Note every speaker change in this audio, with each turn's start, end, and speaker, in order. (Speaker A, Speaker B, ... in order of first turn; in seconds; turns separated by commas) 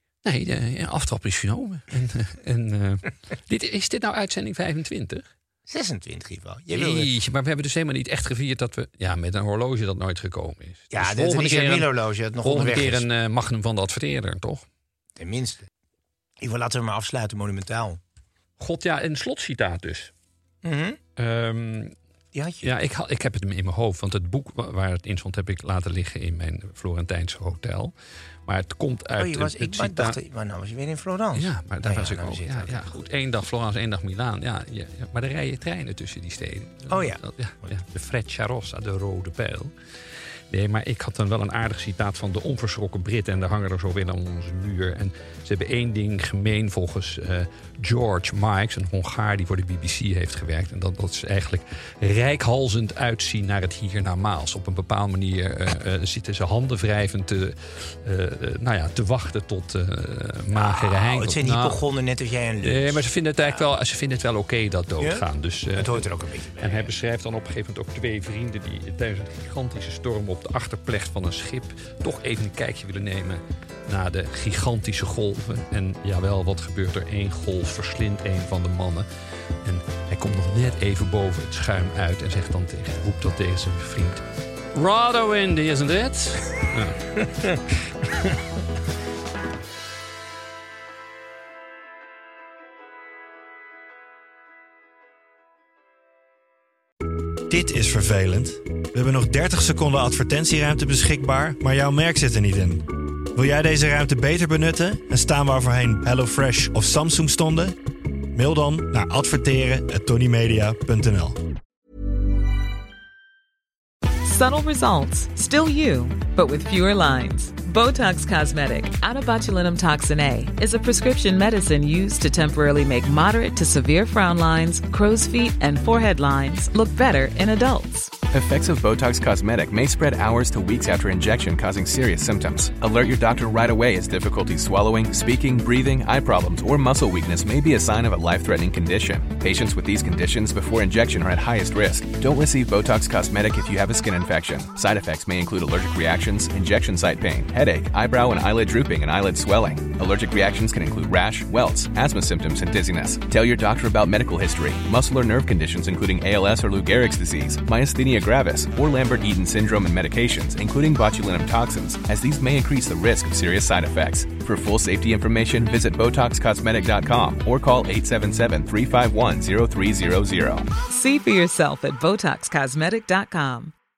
Speaker A: 0.2-5.3, Speaker B: 5.7-7.1, Speaker A: 6.7-14.6, Speaker B: 10.9-13.1, Speaker B: 15.2-15.7, Speaker B: 16.4-18.0, Speaker A: 18.6-20.1, Speaker B: 20.6-21.0, Speaker A: 21.1-21.9, Speaker B: 22.3-22.7, Speaker A: 22.6-30.2, Speaker B: 29.2-33.0, Speaker A: 31.3-39.7, Speaker B: 36.9-37.2, Speaker A: 40.5-61.8, Speaker B: 60.5-63.6, Speaker A: 62.6-66.0, Speaker B: 65.7-66.9, Speaker A: 66.6-79.1, Speaker A: 79.6-87.0, Speaker C: 97.5-107.7, Speaker C: 108.3-111.4, Speaker D: 114.2-128.1, Speaker E: 128.3-170.7, Speaker D: 170.9-173.7